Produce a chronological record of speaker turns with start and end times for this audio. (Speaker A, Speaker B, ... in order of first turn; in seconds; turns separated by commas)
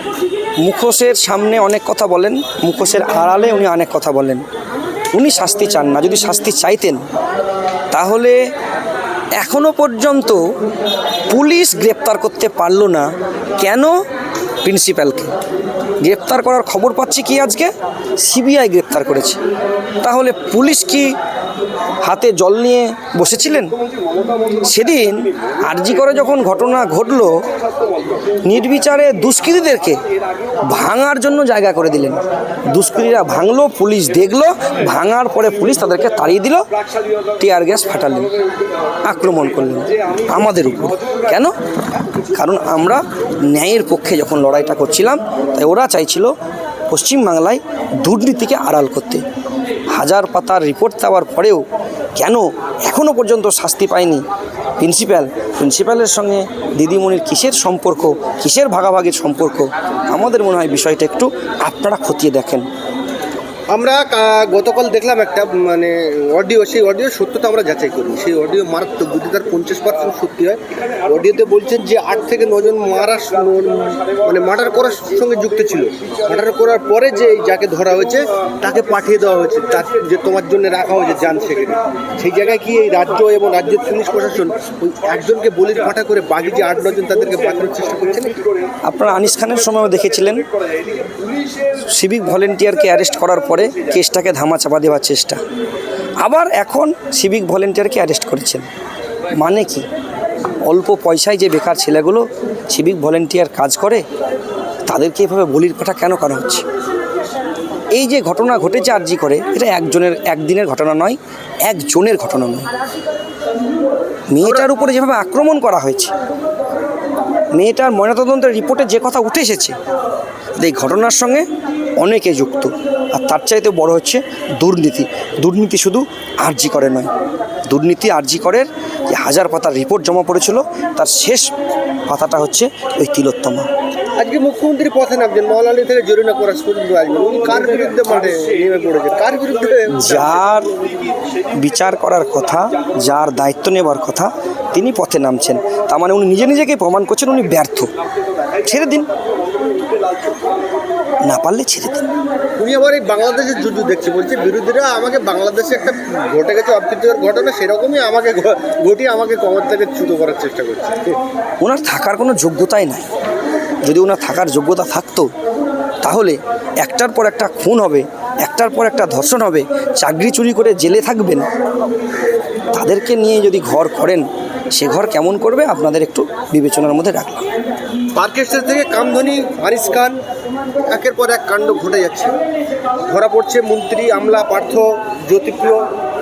Speaker A: 0.6-4.4, Speaker A: 5.1-7.0, Speaker A: 7.9-8.4, Speaker A: 9.4-10.4, Speaker A: 11.3-13.9, Speaker A: 14.6-15.3, Speaker A: 16.0-19.4, Speaker A: 20.0-21.1, Speaker A: 22.0-23.7, Speaker A: 24.6-27.4, Speaker A: 28.4-30.0, Speaker A: 30.6-36.6, Speaker A: 37.4-38.3, Speaker A: 39.0-41.5, Speaker A: 42.3-46.3, Speaker A: 46.9-49.2, Speaker A: 49.9-51.6, Speaker A: 52.2-54.2, Speaker A: 54.8-62.7, Speaker B: 63.7-88.5, Speaker A: 88.8-90.5, Speaker A: 91.9-95.4, Speaker A: 96.2-98.7, Speaker A: 99.3-99.8, Speaker A: 100.7-104.0, Speaker A: 104.9-106.6, Speaker A: 107.9-112.7, Speaker A: 114.3-116.1, Speaker A: 117.5-119.7, Speaker A: 120.6-121.5, Speaker A: 122.0-127.1, Speaker A: 127.7-131.5, Speaker A: 132.1-133.7, Speaker B: 134.2-140.5, Speaker A: 139.9-140.7, Speaker A: 141.6-147.9, Speaker A: 148.6-149.1, Speaker A: 151.2-152.1, Speaker B: 152.6-161.2, Speaker A: 161.6-163.1, Speaker A: 163.8-165.3, Speaker A: 166.0-171.5, Speaker A: 172.7-177.5, Speaker B: 178.2-180.2, Speaker B: 180.9-182.3, Speaker B: 183.0-185.8